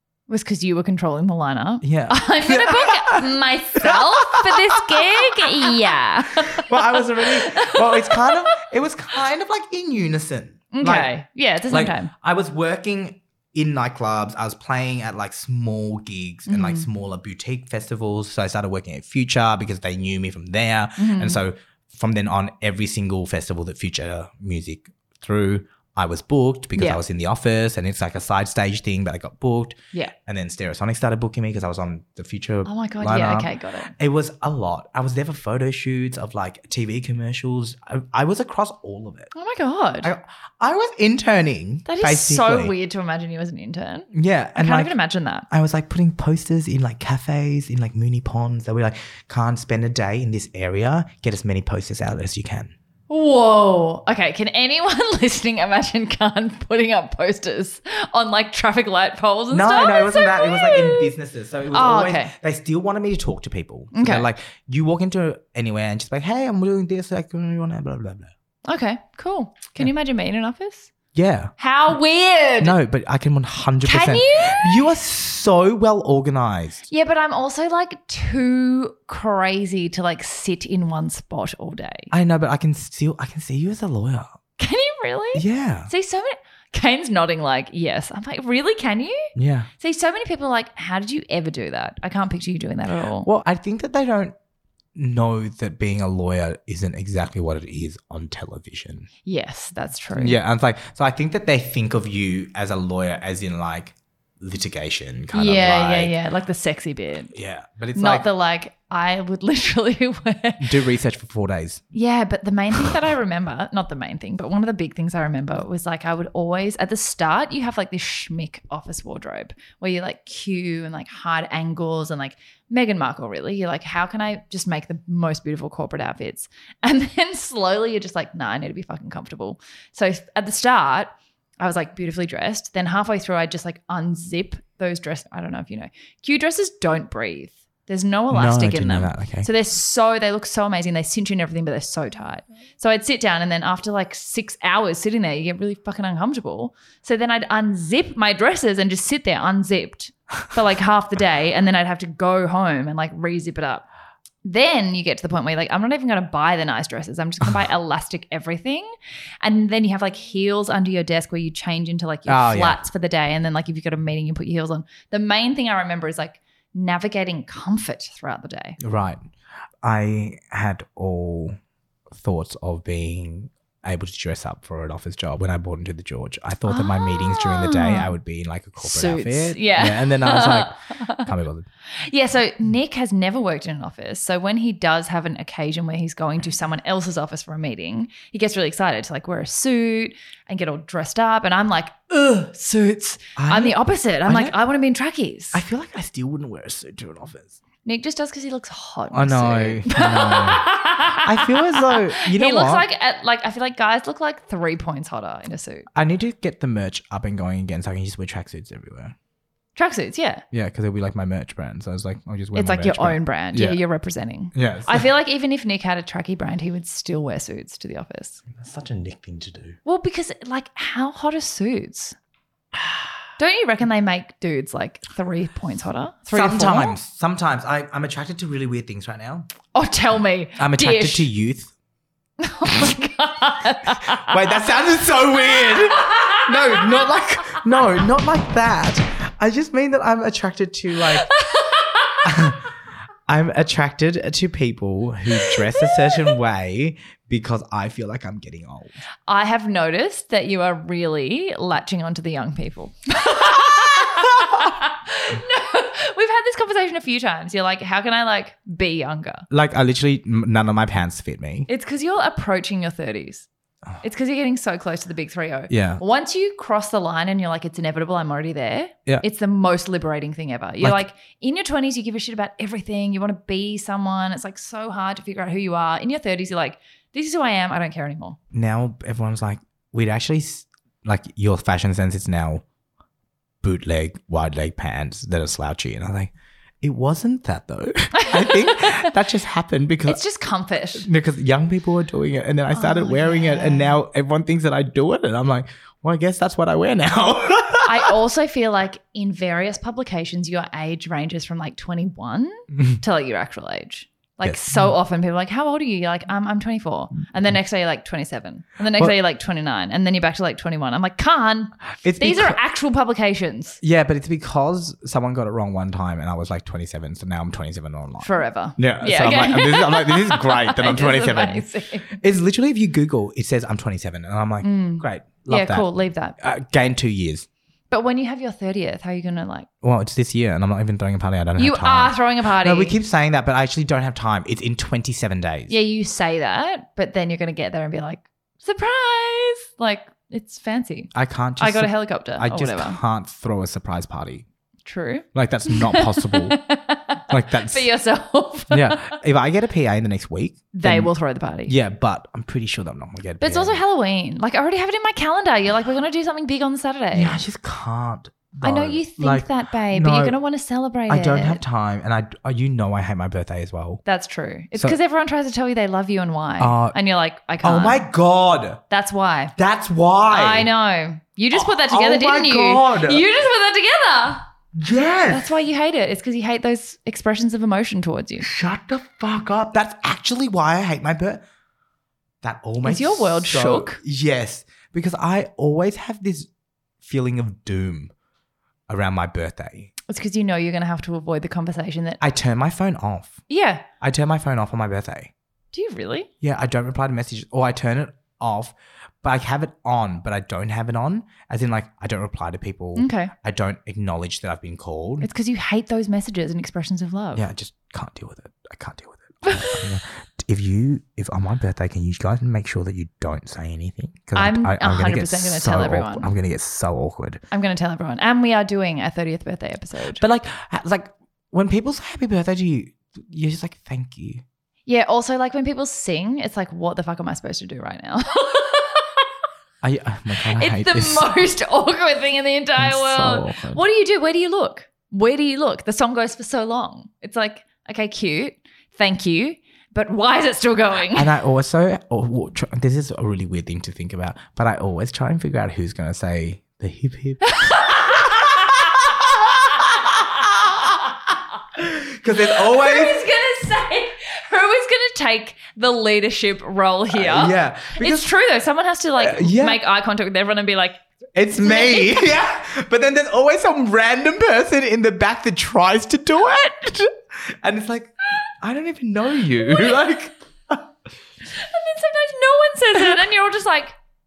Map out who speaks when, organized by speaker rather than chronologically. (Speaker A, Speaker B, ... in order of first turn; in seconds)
Speaker A: 0.3-8.4, 10.7-12.1, 16.5-16.9, 21.0-21.4, 26.8-27.0, 32.6-33.9, 39.3-40.1, 41.9-45.5, 53.1-61.1, 61.7-62.3, 63.9-64.3, 68.7-70.9, 71.6-72.8, 73.8-74.9, 76.9-82.1, 84.6-93.3, 99.3-100.4, 105.3-107.3, 108.0-110.8, 111.9-153.9, 154.4-158.9, 159.4-168.8, 176.7-178.1, 178.8-181.3, 182.0-195.6, 197.8-205.9, 209.8-210.4, 212.6-218.4, 219.8-222.2, 223.4-227.0, 229.7-231.3, 232.4-234.4, 235.5-237.0, 241.1-242.3, 245.4-246.3, 249.3-259.5, 261.7-263.5, 264.0-278.4, 288.1-289.1, 290.1-291.1, 292.7-293.9, 297.8-313.8, 318.2-322.1, 324.6-326.4, 327.9-329.7, 331.6-332.9, 335.7-343.0, 344.8-349.2, 350.7-351.7, 353.4-357.4, 358.6-361.6, 364.1-368.1, 368.9-369.6, 370.3-374.4, 375.3-378.5, 382.8-384.0, 390.1-392.2, 393.5-393.8, 395.7-396.3, 402.9-403.3, 405.2-407.4, 409.4-409.8, 414.3-416.3, 417.5-420.2, 424.9-429.2, 430.5-441.3, 447.4-451.0, 452.4-461.0, 461.6-462.3, 471.5-473.9
Speaker B: 1.8-11.1, 11.7-39.3, 40.0-42.7, 44.1-44.9, 45.5-52.7, 59.5-68.3, 71.1-71.5, 72.6-76.8, 82.1-84.4, 85.3-85.9, 89.4-89.7, 93.2-94.3, 95.0-99.1, 100.1-106.2, 107.3-108.3, 110.6-111.8, 138.3-139.5, 162.3-162.8, 168.8-169.2, 169.8-171.6, 172.1-181.7, 193.4-194.6, 195.5-197.6, 199.1-202.9, 205.9-209.1, 210.5-213.8, 214.5-215.1, 218.5-219.8, 226.3-229.5, 230.6-231.7, 234.0-241.3, 242.2-242.6, 243.3-248.9, 259.5-261.7, 265.7-266.0, 278.5-282.6, 283.6-290.2, 290.9-298.1, 304.4-304.9, 312.0-312.6, 313.8-325.9, 326.4-327.5, 329.8-335.7, 341.1-344.4, 345.3-346.6, 347.3-347.9, 348.7-351.1, 351.7-353.8, 357.1-360.4, 361.1-364.0, 366.6-366.9, 367.6-368.8, 369.6-370.7, 371.5-373.2, 374.8-375.5, 378.4-381.4, 382.4-386.5, 387.0-388.1, 388.9-389.9, 392.2-393.4, 394.0-395.3, 396.4-405.3, 407.3-417.4, 420.2-424.4, 429.8-431.3, 432.8-433.8, 441.1-451.0, 451.8-453.4, 457.1-458.3, 459.2-459.8, 461.3-470.8